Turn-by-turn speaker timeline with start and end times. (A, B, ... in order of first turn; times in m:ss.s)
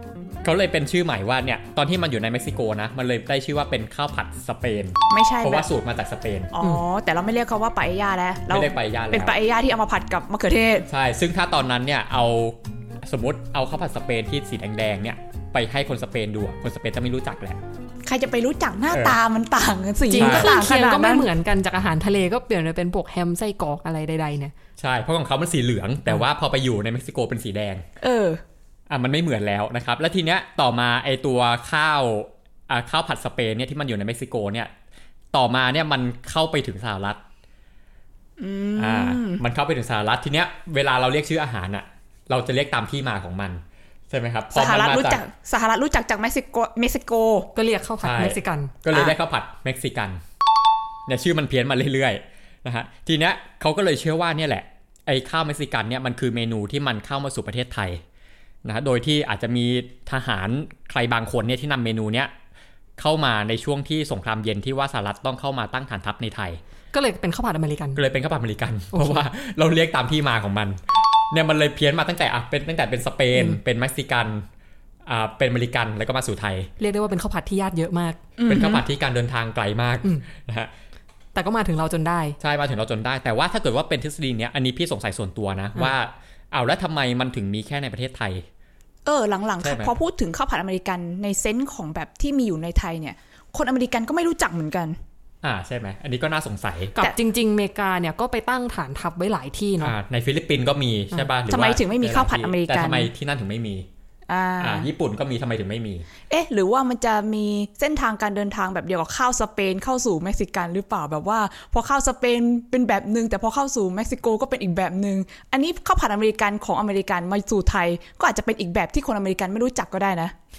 0:00.4-0:06.5 A
0:05.1-0:05.7 B
0:06.5-0:10.9 B
0:08.5-0:09.4 A
0:10.9-0:17.6 A
0:18.1-0:21.3 B
0:18.9-0:19.2 A
0:20.1-0:24.5 C
0:20.2-0:20.6 A
0:24.8-0:27.8 A
0:28.0-0:28.4 B
0:28.9-0:34.7 A
0:35.3-0:37.2 A
0:38.4-0:39.4 B
0:38.8-0:45.2 A
0:44.5-0:47.5 B
0:47.6-0:48.7 C
0:48.0-0:50.2 A
0:48.9-0:49.2 B
0:51.1-0:58.0 A
0:58.6-1:02.3 A
1:03.0-1:06.6 A
1:06.9-1:08.0 C
1:08.0-1:14.5 A
1:08.9-1:09.2 C
1:15.1-1:16.7 A
1:16.8-1:18.2 C
1:18.4-1:18.8 B
1:18.5-1:20.7 A
1:21.4-1:22.4 C
1:22.4-1:28.5 A
1:29.1-1:35.0 B
1:29.6-1:30.0 A
1:35.4-1:36.9 A
1:37.0-1:40.0 C
1:39.8-1:43.9 A
1:41.5-1:43.1 B
1:44.3-1:44.9 B
1:44.6-1:46.1 A
1:46.3-2:00.4 B